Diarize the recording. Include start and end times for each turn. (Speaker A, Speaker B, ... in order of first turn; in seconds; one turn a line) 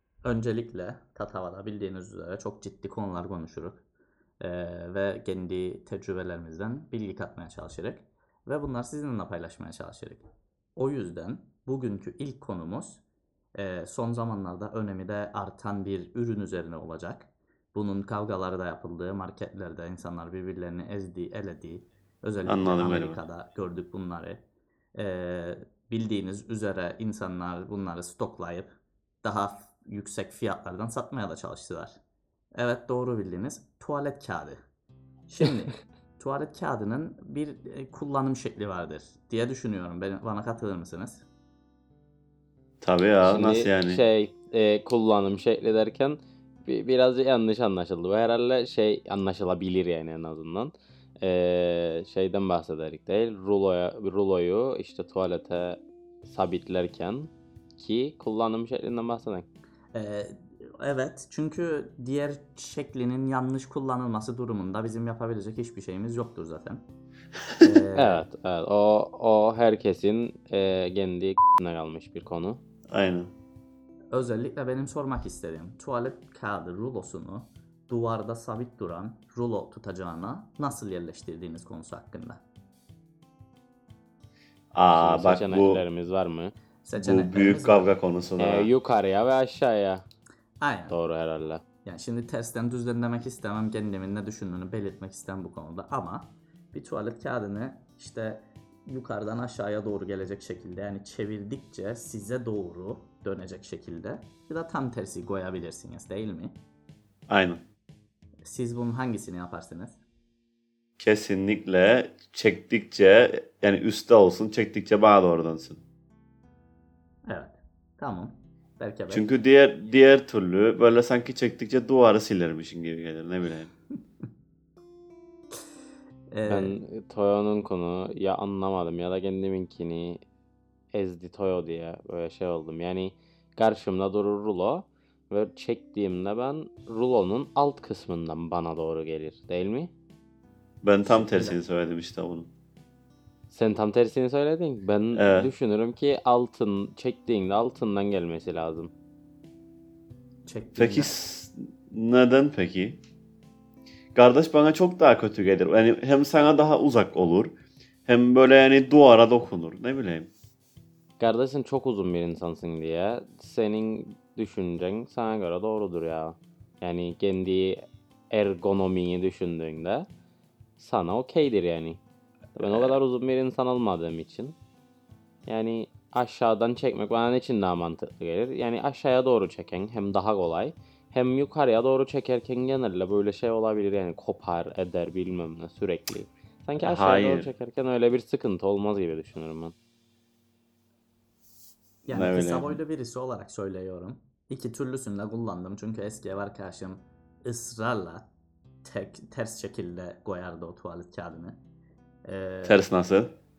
Speaker A: 0.2-3.8
Speaker A: 4.4-10.2
Speaker A: 10.8-13.0
Speaker A: 13.6-24.4
Speaker B: 22.5-23.2
Speaker A: 24.9-28.7
Speaker A: 29.2-32.0
Speaker A: 32.6-34.6
Speaker A: 35.3-41.3
Speaker B: 42.8-44.0
Speaker C: 43.2-59.5
Speaker A: 59.9-66.8
Speaker A: 67.6-68.2
Speaker C: 68.0-72.6
Speaker B: 72.9-73.3
Speaker A: 74.1-82.4
Speaker B: 84.7-85.8
Speaker C: 84.9-86.5
Speaker A: 86.8-87.9
Speaker B: 87.0-88.7
Speaker C: 88.4-90.0
Speaker A: 90.6-91.0
Speaker C: 90.9-91.6
Speaker A: 91.8-106.6
Speaker B: 107.3-107.6
Speaker A: 108.4-110.0
Speaker B: 111.0-115.8
Speaker A: 117.3-119.3
Speaker B: 119.1-123.7
Speaker A: 126.3-126.8
Speaker C: 126.5-130.2
Speaker C: 130.9-139.9
Speaker B: 140.8-142.5
Speaker A: 141.1-141.6
Speaker C: 143.5-148.9
Speaker B: 145.1-145.5
Speaker A: 150.5-151.2
Speaker B: 150.8-153.0
Speaker B: 154.2-160.3
Speaker C: 161.2-170.1
Speaker C: 170.8-172.0
Speaker B: 172.6-173.0
Speaker C: 172.6-174.6
Speaker C: 175.5-189.8
Speaker B: 186.8-187.5
Speaker A: 192.1-198.3
Speaker B: 192.1-192.8
Speaker A: 198.8-201.6
Speaker A: 202.2-202.8
Speaker B: 202.7-203.3